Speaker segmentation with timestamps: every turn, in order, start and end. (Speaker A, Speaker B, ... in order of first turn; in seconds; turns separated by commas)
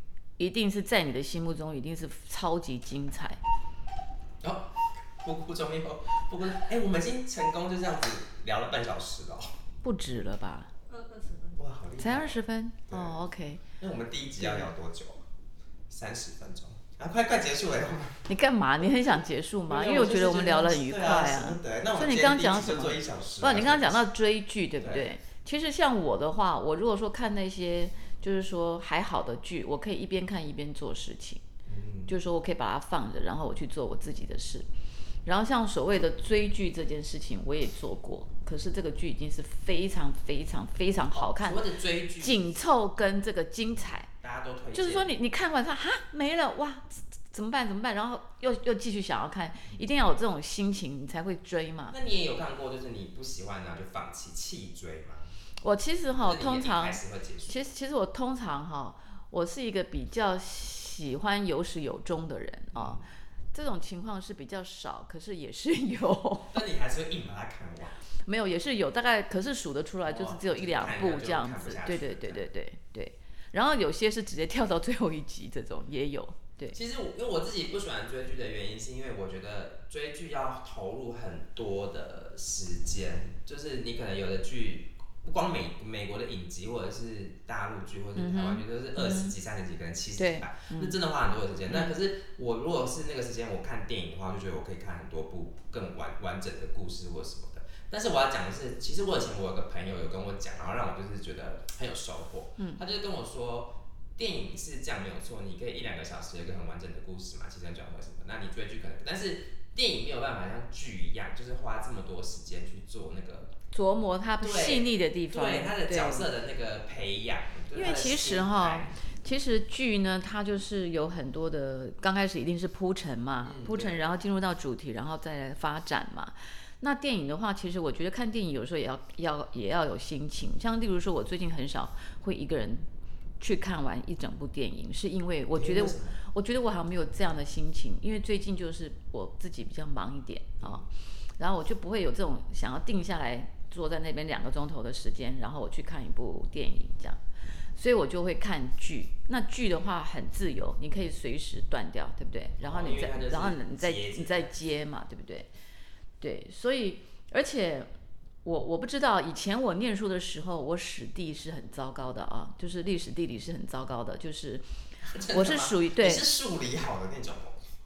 Speaker A: 0.4-3.4, Speaker B: 4.4-9.6, Speaker A: 9.8-10.7, Speaker B: 11.3-13.2, Speaker A: 12.0-13.6, Speaker B: 13.8-15.2, Speaker A: 14.4-14.7, Speaker B: 15.9-18.3, Speaker A: 18.3-31.4, Speaker B: 19.7-24.1, Speaker B: 24.8-25.1, Speaker B: 31.6-32.1, Speaker A: 32.1-34.7, Speaker A: 35.2-41.6, Speaker B: 41.1-42.5, Speaker A: 42.2-44.1, Speaker B: 44.1-45.1, Speaker A: 44.7-52.0, Speaker B: 51.9-55.3, Speaker A: 55.6-66.6, Speaker B: 56.2-57.7, Speaker B: 62.7-63.0, Speaker B: 66.5-68.0, Speaker A: 68.2-76.8, Speaker B: 70.0-72.5, Speaker B: 76.7-113.5, Speaker A: 88.2-89.3, Speaker A: 90.2-91.0, Speaker A: 91.7-91.9, Speaker A: 113.7-116.3, Speaker B: 114.4-119.0, Speaker A: 117.7-132.9, Speaker B: 123.4-124.0, Speaker A: 133.4-140.9, Speaker B: 135.5-136.2, Speaker B: 140.6-140.9, Speaker A: 141.4-147.2, Speaker A: 147.7-155.5, Speaker B: 152.6-154.5, Speaker A: 156.2-157.9, Speaker A: 158.4-164.6, Speaker B: 165.1-167.6, Speaker A: 165.1-166.2